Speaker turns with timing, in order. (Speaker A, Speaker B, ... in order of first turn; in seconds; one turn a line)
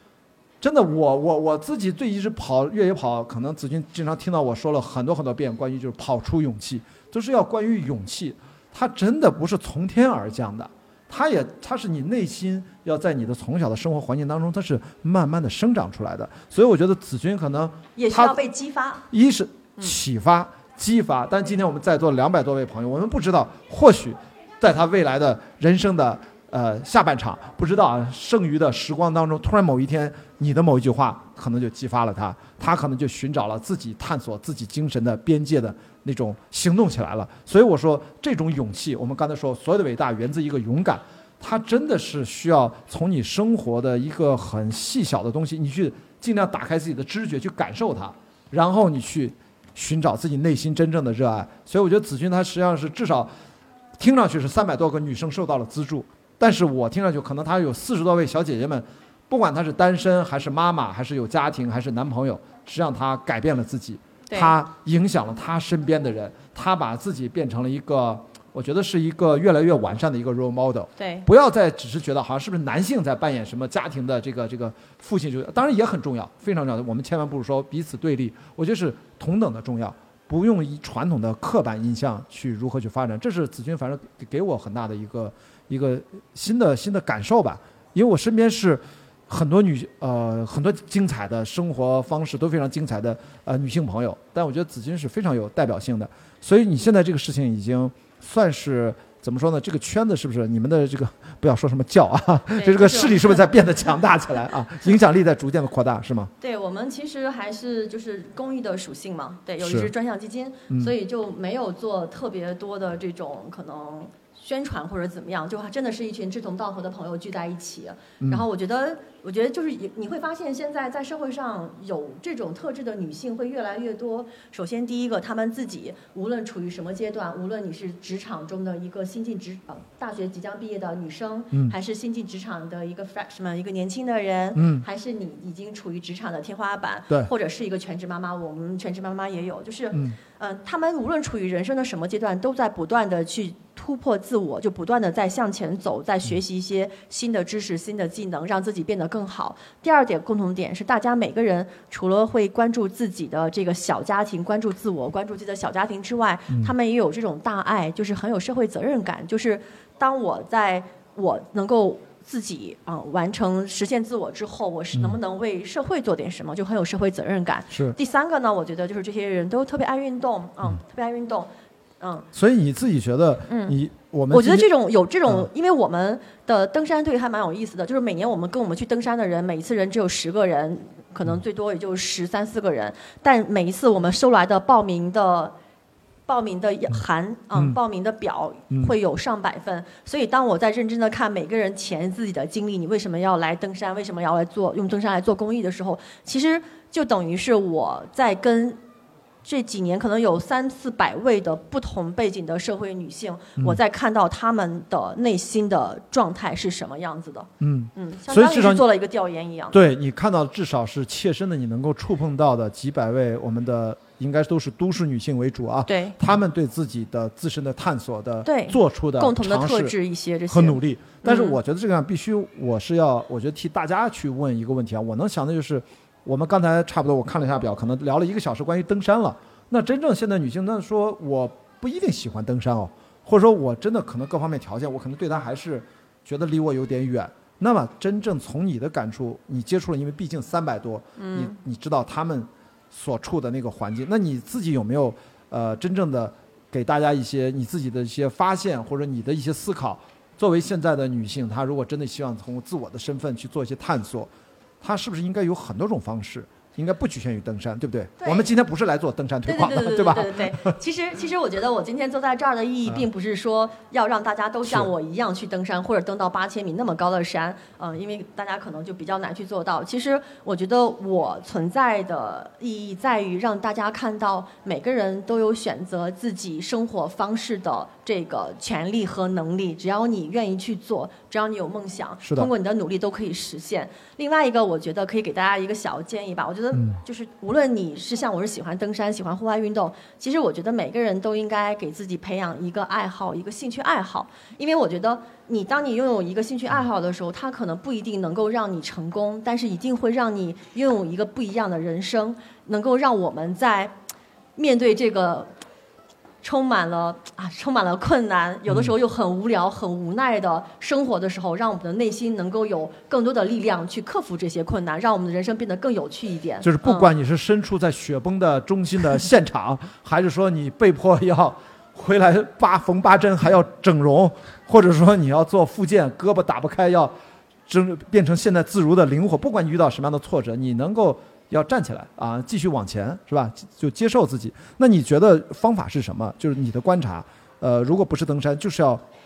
Speaker A: 0.6-18.4
Speaker B: 17.9-19.1
Speaker A: 19.1-53.3
Speaker A: 54.0-106.3
Speaker B: 64.3-64.5
Speaker B: 71.0-71.2
Speaker B: 102.5-103.5
Speaker B: 106.4-171.5
Speaker A: 109.6-109.9
Speaker A: 118.2-118.4
Speaker A: 134.5-134.8
Speaker A: 139.9-140.2
Speaker A: 164.9-165.2
Speaker A: 167.7-168.0
Speaker B: 172.0-172.3
Speaker A: 172.3-174.7
Speaker B: 173.5-173.7
Speaker B: 174.3-185.5
Speaker B: 186.3-198.8
Speaker B: 199.4-209.8
Speaker A: 207.6-208.8
Speaker A: 209.7-219.9
Speaker B: 215.9-216.2
Speaker B: 218.4-221.6
Speaker A: 220.5-260.7
Speaker B: 241.2-241.6
Speaker B: 258.2-258.5
Speaker B: 259.4-303.9
Speaker A: 264.6-264.9
Speaker A: 282.2-282.5
Speaker A: 286.7-287.0
Speaker B: 304.6-305.5
Speaker B: 306.4-317.1
Speaker A: 316.6-327.1
Speaker A: 327.7-339.0